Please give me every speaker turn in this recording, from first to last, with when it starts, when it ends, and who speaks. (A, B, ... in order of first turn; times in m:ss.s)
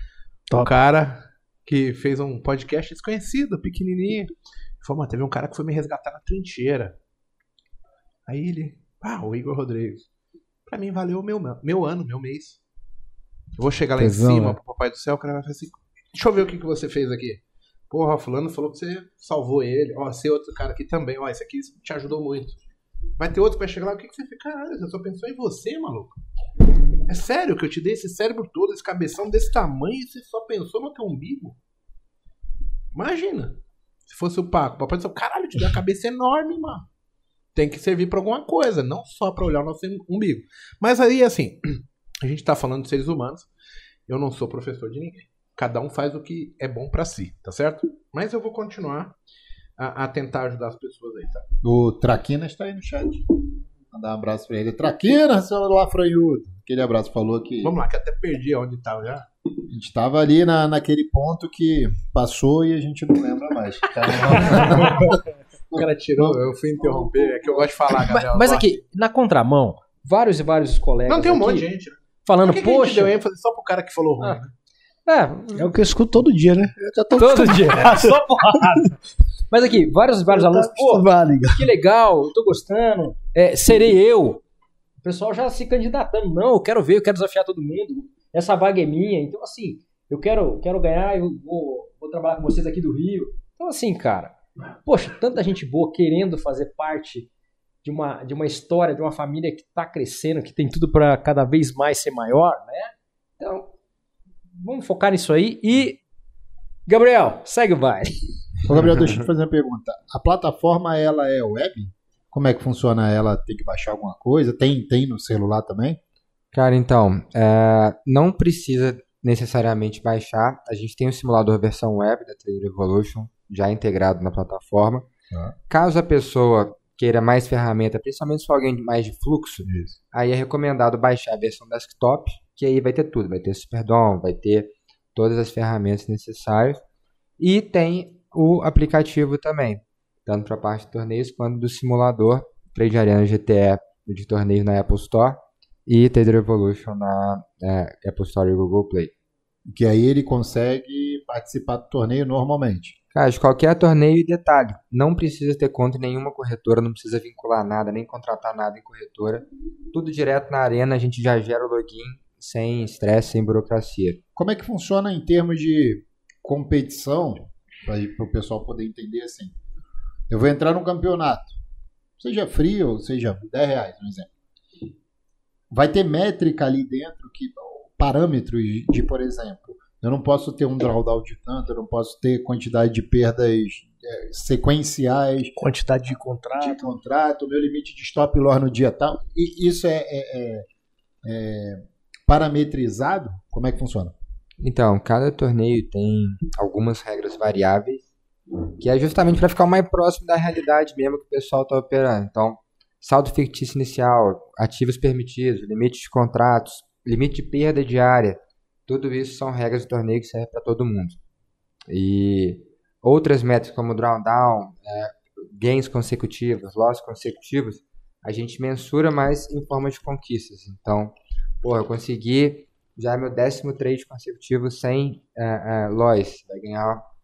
0:00.5-0:06.9 A
0:08.3-0:10.1 A
0:10.7-0:12.6 A
0:13.6-0:22.6 A
0:14.1-0:14.5 B
0:23.2-0:26.2 A
0:27.1-0:31.6 A
0:32.9-0:36.9 A
0:37.5-0:43.5 A
0:44.1-0:49.1 A
0:49.8-0:51.4 A
0:51.6-0:53.3 C
0:53.9-0:57.7 C
0:57.6-0:59.3 A
0:59.7-1:05.2 C
1:04.2-1:05.1 A
1:05.7-1:08.8 A
1:05.7-1:06.4 C
1:08.0-1:11.6 D
1:11.1-1:14.5 A
1:12.2-1:13.2 D
1:15.1-1:15.7 D
1:15.5-1:18.8 B
1:17.1-1:19.0 D
1:19.5-1:24.4 D
1:20.3-1:21.7 B
1:25.0-1:37.3 D
1:37.8-1:43.7 D
1:44.6-1:46.0 D
1:46.9-1:48.2 D
1:48.6-1:56.0 C
1:56.5-2:05.1 E
2:05.7-2:16.8 E
2:09.6-2:09.9 C
2:17.4-2:29.1 E
2:29.7-2:33.0 C
2:33.1-2:44.2 E
2:44.4-2:49.5 C
2:50.3-2:51.6 C
2:52.2-2:54.3 C
2:55.7-3:05.5 C
3:05.6-3:06.8 B
3:06.6-3:10.6 C
3:11.2-3:14.1 C
3:14.6-3:18.0 E
3:18.8-3:31.2 E
3:31.9-3:47.0 E